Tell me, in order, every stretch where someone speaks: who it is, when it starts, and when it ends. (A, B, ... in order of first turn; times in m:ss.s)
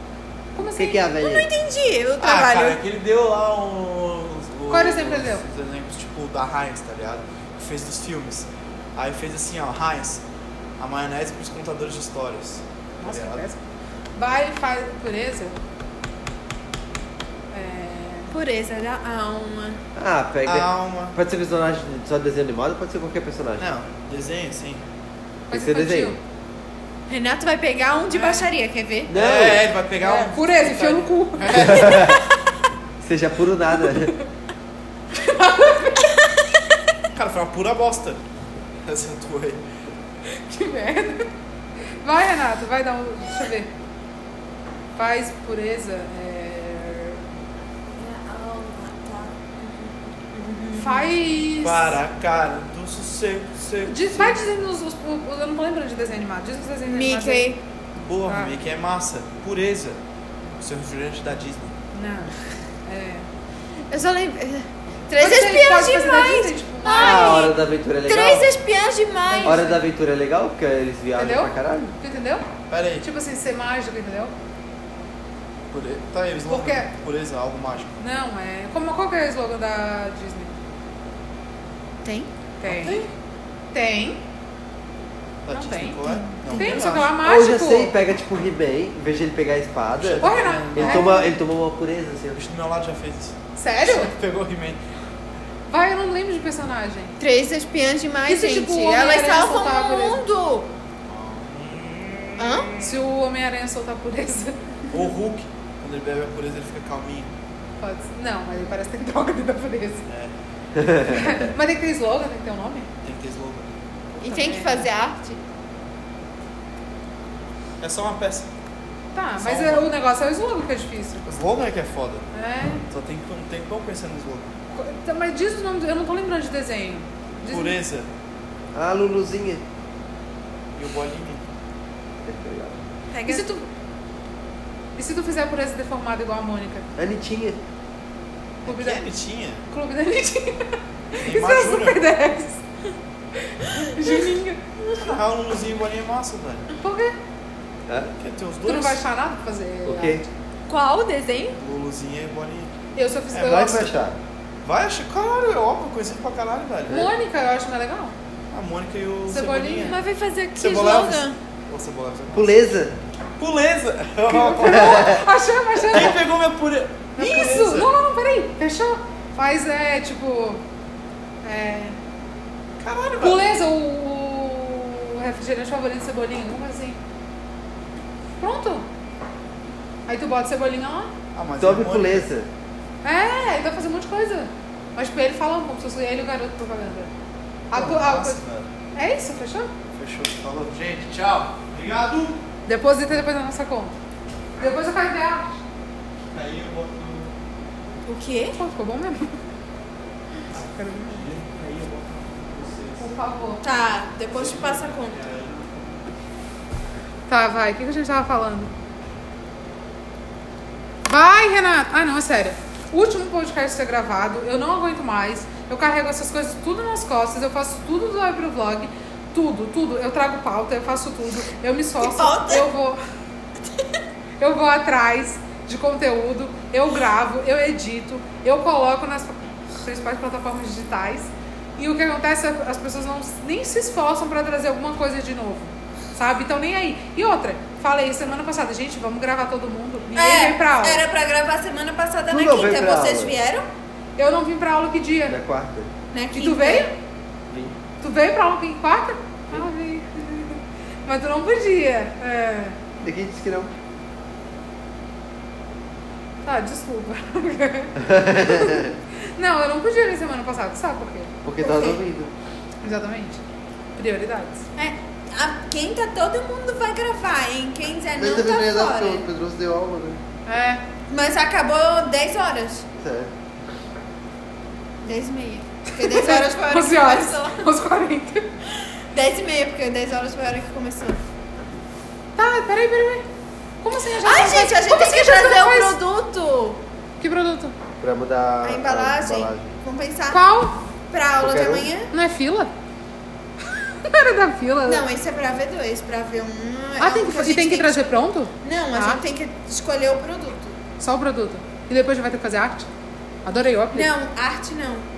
0:00.5-0:01.0 A
0:00.6-0:01.5 B
0:01.2-0:02.8 C
0:02.2-0:10.2 D
0:04.7-0:05.4 A
0:10.8-0:13.4 D
0:13.0-0:13.6 A
0:14.1-0:15.6 A
0:17.5-0:18.3 A
0:18.3-0:19.8 C
0:19.9-0:23.6 B
0:20.4-0:21.1 D
0:23.6-0:24.8 D
0:25.5-0:26.2 B
0:25.5-0:26.2 A
0:27.1-0:29.1 C
0:28.1-0:28.5 A
0:29.1-0:29.7 B
0:29.1-0:32.2 D
0:30.0-0:32.1 A
0:31.6-0:32.2 B
0:33.0-0:34.2 B
0:33.9-0:34.2 A
0:35.1-0:36.3 A
0:37.1-0:38.2 D
0:38.8-0:39.6 D
0:40.3-0:41.3 A
0:42.0-0:43.7 A
0:45.0-0:47.2 A
0:47.9-0:51.2 C
0:50.8-0:52.0 A
0:51.6-0:54.4 D
0:53.8-0:57.5 A
0:56.9-0:57.6 C
0:58.0-1:00.0 D
0:58.2-0:58.6 A
1:00.6-1:01.8 D
1:01.9-1:02.3 A
1:02.8-1:03.2 A
1:03.9-1:09.6 C
1:05.2-1:07.5 A
1:07.0-1:08.4 B
1:08.1-1:08.4 D
1:09.3-1:09.8 A
1:09.4-1:11.9 B
1:11.2-1:12.4 A
1:12.7-1:13.0 D
1:13.0-1:14.3 A
1:15.7-1:17.9 D
1:16.5-1:16.9 A
1:18.0-1:20.5 A
1:22.0-1:23.0 C
1:22.6-1:23.1 A
1:23.7-1:24.2 A
1:25.4-1:27.1 D
1:25.5-1:27.9 A
1:26.0-1:26.6 C
1:26.7-1:32.4 B
1:30.0-1:31.1 D
1:30.2-1:31.2 A
1:32.3-1:33.3 D
1:33.6-1:34.1 A
1:33.8-1:34.8 D
1:35.7-1:37.1 A
1:37.2-1:40.7 C
1:38.3-1:40.2 A
1:41.1-1:42.9 D
1:42.4-1:42.7 C
1:42.8-1:44.6 A
1:44.9-1:47.3 D
1:47.8-1:50.0 A
1:50.1-1:50.3 D
1:50.8-1:51.3 B
1:50.9-1:52.9 A
1:53.0-1:53.7 D
1:54.2-1:55.4 C
1:54.2-1:54.9 A
1:57.8-1:58.5 D
1:59.1-2:01.2 A
1:59.4-1:59.9 D
2:01.2-2:02.2 D
2:02.3-2:02.8 A
2:02.9-2:04.4 D
2:04.7-2:07.8 A
2:07.5-2:08.1 D
2:08.7-2:09.6 B
2:10.7-2:11.4 D
2:12.2-2:12.8 B
2:13.1-2:13.4 C
2:13.3-2:13.6 A
2:15.0-2:16.8 A
2:17.0-2:17.6 B
2:18.6-2:19.0 A
2:18.6-2:19.6 D
2:19.7-2:22.6 A
2:21.2-2:22.0 D
2:23.4-2:24.6 A
2:24.0-2:24.2 C
2:25.0-2:26.7 D
2:26.8-2:27.1 A
2:27.9-2:28.1 B
2:28.2-2:29.0 D
2:28.6-2:30.3 A
2:29.8-2:30.2 B
2:30.7-2:31.6 C
2:31.6-2:32.7 D
2:32.9-2:33.8 A
2:33.3-2:34.0 D
2:33.4-2:34.2 B
2:34.6-2:37.1 D
2:36.9-2:38.1 A
2:38.5-2:40.0 D
2:39.3-2:40.0 A
2:39.8-2:41.4 C
2:40.6-2:42.6 D
2:42.3-2:43.0 B
2:43.4-2:45.2 D
2:44.3-2:46.2 A
2:44.6-2:45.2 B
2:45.9-2:47.9 D
2:47.2-2:50.6 A
2:51.4-2:52.0 A
2:52.8-2:53.4 D
2:53.2-2:57.0 A
2:58.4-2:58.9 A
3:00.1-3:01.1 A
3:01.3-3:02.3 D
3:01.6-3:02.5 B
3:03.0-3:07.1 A
3:07.7-3:08.4 A
3:07.7-3:08.7 D
3:08.9-3:09.7 A
3:10.0-3:10.3 B
3:10.3-3:12.4 D
3:12.7-3:13.9 A
3:14.6-3:15.6 A
3:16.3-3:17.3 D
3:18.0-3:18.6 C
3:18.5-3:19.3 A
3:20.5-3:21.3 A
3:20.6-3:23.1 D
3:23.0-3:23.6 A
3:23.6-3:25.2 C
3:24.3-3:26.0 D
3:27.3-3:28.7 A
3:31.1-3:43.0 A
3:42.0-3:42.7 C
3:44.4-4:01.0 A
4:00.1-4:03.6 C
4:02.3-4:03.4 B
4:04.2-4:05.4 A
4:05.3-4:05.9 B
4:06.1-4:06.9 C
4:06.3-4:07.0 A
4:07.5-4:07.7 B
4:08.0-4:12.8 A
4:13.0-4:13.7 B
4:16.4-4:21.3 A
4:18.0-4:18.9 B
4:21.4-4:22.3 B
4:21.6-4:22.0 C
4:22.8-4:23.4 A
4:24.0-4:24.6 A
4:24.8-4:29.3 C
4:28.2-4:30.2 B
4:30.4-4:30.8 A
4:31.1-4:32.8 C
4:33.0-4:33.3 B
4:35.0-4:37.6 C
4:35.9-4:38.4 A
4:39.1-4:41.2 C
4:42.4-4:43.2 A
4:43.8-4:46.0 A
4:44.2-4:46.8 C
4:47.2-4:47.7 A
4:48.0-4:49.8 B
4:48.6-4:50.4 C
4:50.3-4:50.8 A
4:51.1-4:52.1 C
4:51.4-4:51.9 B
4:52.1-4:52.7 A
4:53.7-4:55.0 A
4:54.8-5:00.7 C
4:57.0-4:59.2 A
5:01.0-5:02.9 A
5:03.4-5:04.1 A
5:03.9-5:05.1 C